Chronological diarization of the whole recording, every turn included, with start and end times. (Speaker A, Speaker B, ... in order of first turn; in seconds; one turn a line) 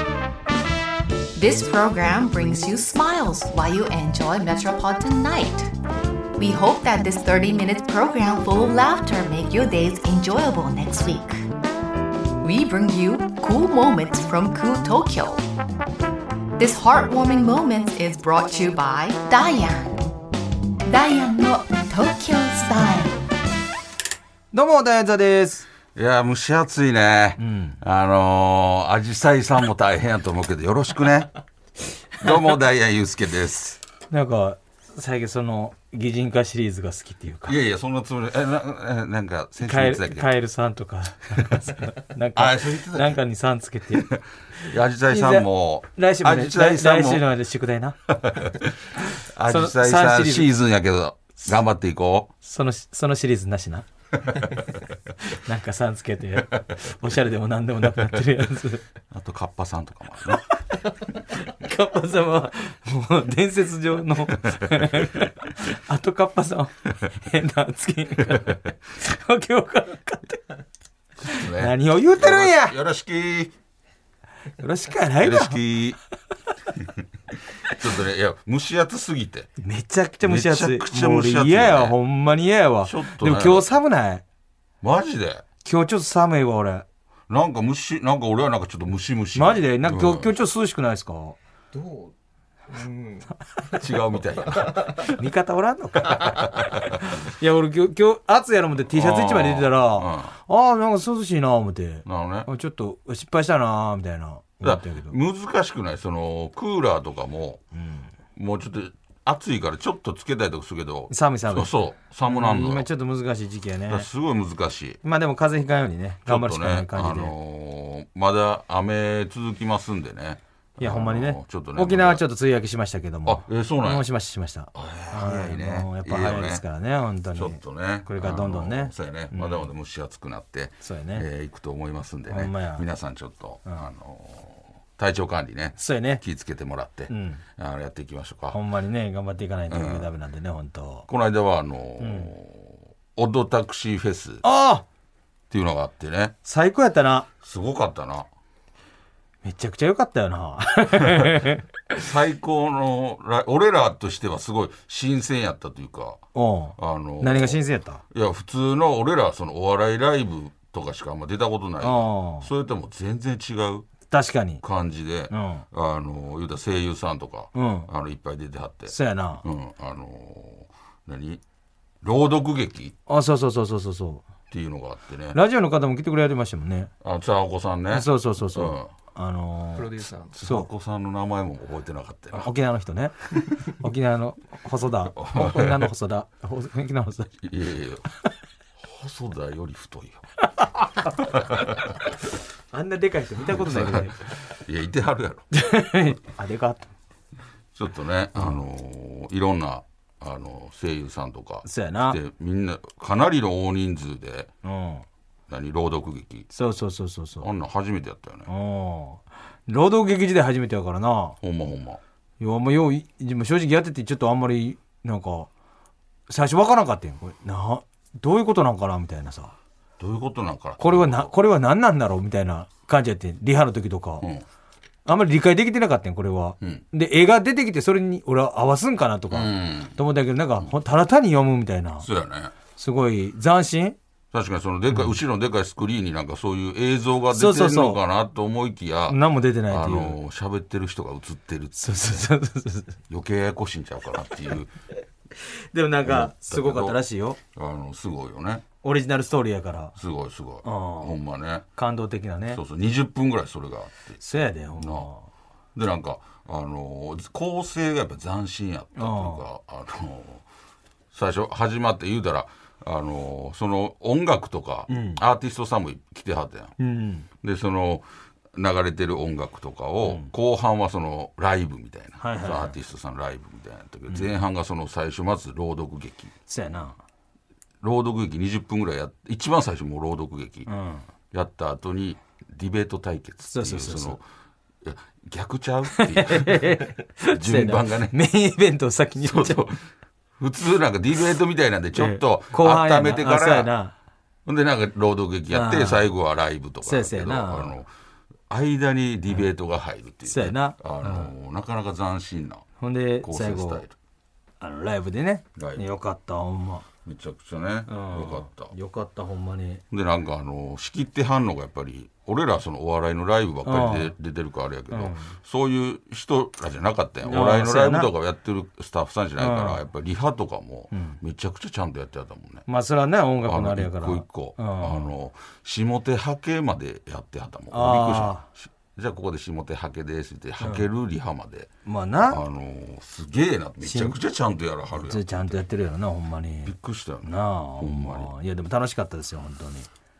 Speaker A: 1.4-5.7
Speaker A: 6.4-11.4
Speaker A: 12.4-15.4
Speaker A: 16.6-20.0
Speaker A: 20.9-23.2
Speaker B: 24.5-25.7
Speaker C: 25.9-31.3
Speaker B: 27.4-27.8
Speaker C: 32.2-33.8
Speaker B: 34.1-37.5
Speaker C: 37.5-40.3
Speaker B: 39.6-44.1
Speaker C: 42.4-43.2
Speaker C: 43.9-47.3
Speaker B: 44.6-48.0
Speaker C: 48.1-52.3
Speaker B: 49.5-50.5
Speaker B: 52.4-53.9
Speaker B: 55.2-58.8
Speaker C: 59.1-60.4
Speaker B: 61.4-70.4
Speaker C: 64.6-65.0
Speaker C: 68.2-68.7
Speaker C: 71.2-73.5
Speaker B: 71.3-72.8
Speaker B: 74.6-75.6
Speaker C: 75.2-76.0
Speaker C: 76.8-79.5
Speaker B: 79.6-84.2
Speaker C: 80.2-82.0
Speaker C: 82.8-83.7
Speaker C: 84.8-85.4
Speaker B: 85.6-86.8
Speaker C: 87.3-90.3
Speaker B: 89.3-91.4
Speaker D: 91.7-92.1
Speaker D: 92.7-93.9
Speaker C: 93.8-95.0
Speaker D: 94.5-95.0
Speaker B: 95.1-105.2
Speaker C: 98.9-100.3
Speaker C: 102.0-102.5
Speaker C: 104.6-107.6
Speaker B: 107.7-108.1
Speaker C: 108.3-112.9
Speaker B: 111.1-111.7
Speaker B: 112.2-114.1
Speaker C: 113.9-115.0
Speaker B: 115.0-117.3
Speaker C: 116.2-122.2
Speaker B: 120.8-129.7
Speaker C: 123.2-124.1
Speaker C: 124.7-126.6
Speaker C: 127.3-138.6
Speaker B: 130.8-131.2
Speaker B: 132.3-132.8
Speaker B: 135.8-136.2
Speaker B: 137.1-137.4
Speaker B: 138.5-141.1
Speaker C: 139.7-140.1
Speaker C: 141.1-144.4
Speaker B: 142.0-142.3
Speaker B: 144.4-144.8
Speaker C: 145.5-146.3
Speaker B: 146.4-147.3
Speaker C: 147.4-148.3
Speaker B: 149.4-152.0
Speaker C: 151.0-151.3
Speaker C: 151.9-156.2
Speaker B: 156.3-158.0
Speaker C: 156.8-163.9
Speaker B: 161.8-162.5
Speaker B: 164.1-164.6
Speaker C: 164.6-171.4
Speaker B: 165.3-165.6
Speaker B: 167.5-167.9
Speaker B: 168.9-169.4
Speaker C: 172.0-172.9
Speaker B: 173.1-174.3
Speaker C: 174.5-175.4
Speaker B: 175.3-176.9
Speaker C: 177.0-178.9
Speaker B: 177.9-180.7
Speaker D: 179.8-180.3
Speaker C: 180.3-182.5
Speaker B: 182.3-187.3
Speaker C: 185.2-185.9
Speaker C: 187.4-188.1
Speaker C: 188.8-190.2
Speaker B: 190.6-190.9
Speaker C: 191.2-192.0
Speaker B: 192.7-194.2
Speaker C: 193.4-195.5
Speaker B: 195.5-196.9
Speaker C: 197.8-204.5
Speaker B: 201.6-202.2
Speaker B: 204.6-205.0
Speaker C: 205.5-206.5
Speaker B: 206.5-207.5
Speaker C: 207.4-208.5
Speaker B: 208.5-211.4
Speaker C: 211.4-212.0
Speaker B: 212.4-215.5
Speaker B: 216.3-219.5
Speaker C: 220.0-221.3
Speaker B: 220.8-224.3
Speaker B: 225.0-232.1
Speaker C: 229.3-230.0
Speaker C: 232.0-232.5
Speaker B: 232.8-234.0
Speaker C: 234.3-242.3
Speaker B: 237.3-238.0
Speaker B: 239.1-240.2
Speaker B: 241.8-243.0
Speaker C: 243.1-244.7
Speaker B: 245.4-247.4
Speaker C: 246.0-247.0
Speaker C: 247.5-248.7
Speaker B: 248.8-249.9
Speaker C: 249.9-251.7
Speaker B: 250.6-251.2
Speaker B: 251.8-252.6
Speaker C: 252.5-254.2
Speaker B: 254.2-255.2
Speaker C: 254.8-255.1
Speaker C: 255.8-260.4
Speaker B: 258.9-259.4
Speaker C: 261.1-266.7
Speaker B: 264.9-265.2
Speaker B: 266.8-267.3
Speaker C: 267.4-276.3
Speaker B: 272.2-272.8
Speaker B: 276.5-277.0
Speaker C: 277.8-280.7
Speaker B: 280.7-281.1
Speaker C: 281.3-284.2
Speaker B: 283.5-284.2
Speaker C: 284.8-288.1
Speaker B: 285.9-289.7
Speaker C: 289.2-289.8
Speaker C: 290.4-293.7
Speaker B: 291.9-293.9
Speaker C: 294.4-297.9
Speaker B: 295.5-296.1
Speaker B: 296.8-297.7
Speaker C: 298.5-302.6
Speaker B: 300.2-301.3
Speaker B: 302.8-303.8
Speaker C: 303.2-303.9
Speaker B: 304.6-306.9
Speaker C: 305.6-305.8
Speaker C: 307.1-308.7
Speaker B: 307.9-309.8
Speaker C: 309.9-322.6
Speaker B: 313.6-314.1
Speaker B: 314.9-315.3
Speaker B: 317.2-318.1
Speaker B: 319.4-319.8
Speaker B: 320.9-321.2
Speaker B: 322.7-325.1
Speaker C: 323.4-331.7
Speaker B: 327.7-328.4
Speaker B: 330.6-330.9
Speaker B: 331.8-332.4
Speaker C: 332.3-335.6
Speaker B: 333.8-334.2
Speaker B: 334.9-339.9
Speaker C: 336.6-338.3